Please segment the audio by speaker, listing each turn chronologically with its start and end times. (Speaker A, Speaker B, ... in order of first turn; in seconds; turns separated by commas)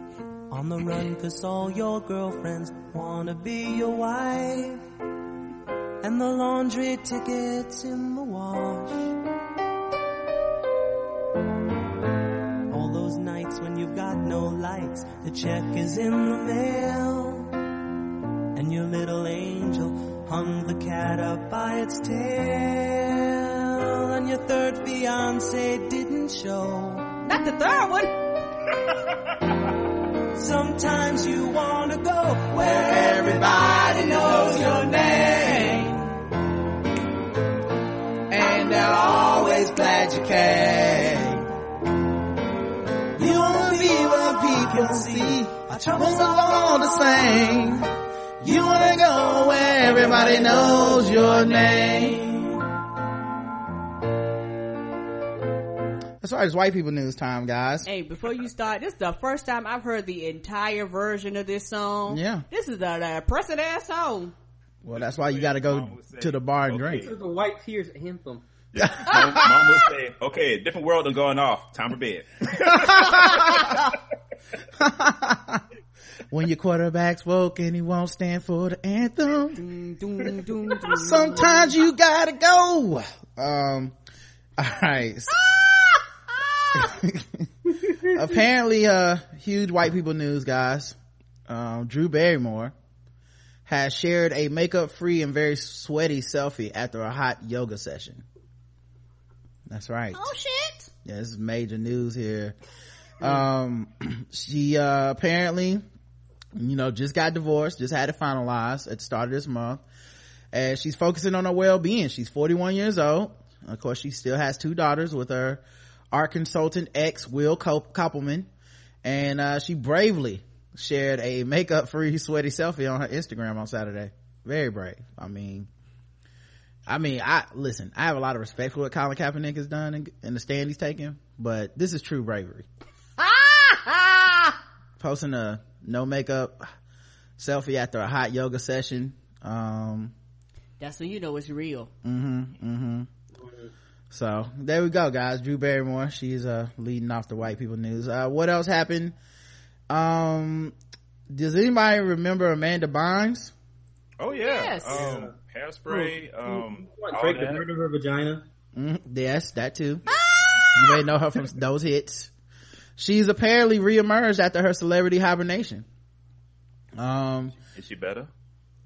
Speaker A: 0.5-4.8, Speaker A: 6.0-9.1, Speaker A: 12.7-17.5, Speaker A: 18.5-27.2, Speaker B: 27.2-28.2, Speaker A: 30.3-35.8, Speaker C: 32.6-36.0, Speaker B: 33.6-35.9, Speaker C: 38.3-41.5, Speaker C: 43.1-47.9, Speaker A: 43.2-47.7, Speaker C: 48.4-52.3, Speaker A: 49.6-52.5, Speaker C: 56.2-57.9, Speaker B: 57.9-64.3, Speaker C: 62.1-62.4, Speaker C: 64.8-67.1, Speaker D: 65.0-67.1, Speaker E: 66.9-68.5, Speaker D: 68.7-73.8, Speaker C: 68.8-69.7, Speaker C: 72.7-73.8, Speaker C: 74.8-75.6, Speaker C: 76.3-79.6, Speaker B: 79.5-81.7, Speaker C: 80.8-83.9, Speaker C: 84.6-85.5, Speaker B: 85.4-86.9, Speaker C: 86.7-87.5, Speaker C: 88.0-91.0, Speaker C: 91.5-92.7, Speaker C: 93.7-98.2, Speaker C: 99.7-100.3, Speaker B: 100.1-100.9, Speaker C: 101.0-102.5, Speaker C: 103.2-105.8, Speaker C: 106.5-109.8, Speaker C: 110.5-118.5, Speaker C: 119.0-125.7, Speaker C: 126.9-132.7, Speaker B: 133.2-134.6, Speaker C: 135.0-136.7, Speaker C: 137.4-140.1, Speaker B: 140.8-141.9, Speaker C: 142.0-143.1, Speaker E: 143.4-143.7, Speaker C: 144.1-149.1, Speaker C: 149.9-150.7, Speaker C: 151.3-153.5, Speaker D: 154.2-157.6, Speaker B: 154.3-155.0, Speaker E: 154.9-155.3, Speaker E: 155.9-158.4, Speaker C: 158.8-162.3, Speaker B: 160.1-161.0, Speaker C: 163.0-165.8, Speaker C: 166.9-167.5, Speaker D: 167.7-168.3